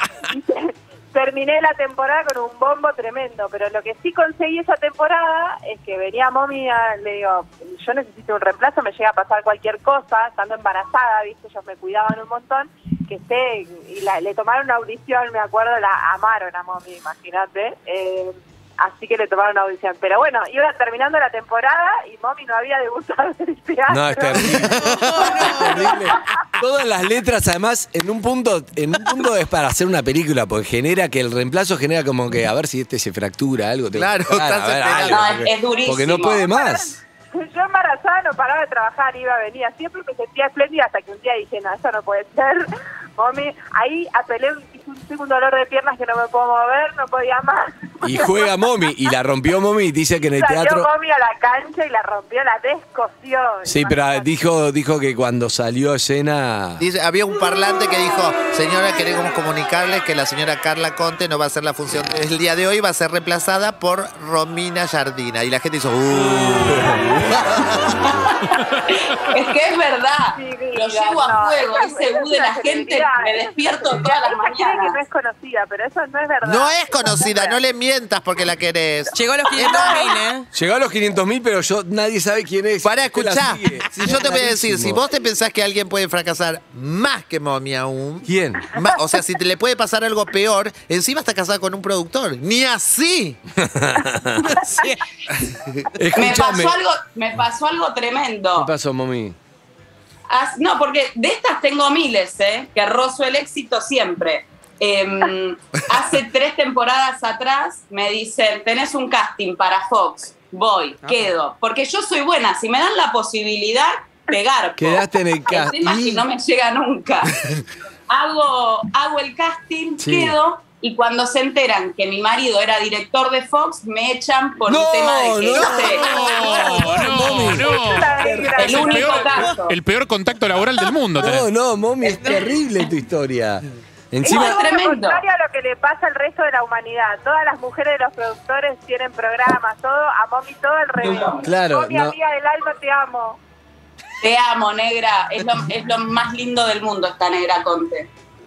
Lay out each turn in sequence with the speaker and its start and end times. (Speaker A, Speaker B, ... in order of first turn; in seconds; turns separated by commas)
Speaker A: 0.3-26.0, Speaker B: 23.9-37.0, Speaker C: 24.7-26.0, Speaker D: 33.9-35.4, Speaker E: 35.1-36.5, Speaker A: 36.5-48.5, Speaker B: 48.0-50.9, Speaker A: 50.3-54.3, Speaker B: 53.6-56.8, Speaker D: 56.8-68.2, Speaker B: 66.5-67.6, Speaker E: 68.1-75.0, Speaker A: 70.3-77.6, Speaker D: 76.4-80.0, Speaker C: 79.1-80.5, Speaker A: 79.5-80.1, Speaker B: 80.5-85.0, Speaker D: 82.8-93.4, Speaker B: 88.2-88.7, Speaker B: 93.5-94.6, Speaker C: 94.5-95.0, Speaker D: 95.4-95.9, Speaker B: 96.0-96.8, Speaker E: 96.1-98.7, Speaker B: 98.5-99.4, Speaker E: 100.3-117.3, Speaker B: 114.8-116.2, Speaker E: 118.1-126.2, Speaker B: 120.0-120.3, Speaker B: 124.6-128.8, Speaker D: 125.6-126.5, Speaker F: 126.0-131.5, Speaker A: 127.8-129.4, Speaker E: 128.6-129.8, Speaker B: 131.2-134.6, Speaker C: 132.0-132.6, Speaker A: 134.2-143.4, Speaker E: 134.2-135.2, Speaker E: 141.0-141.5, Speaker B: 141.4-142.2, Speaker E: 144.2-148.1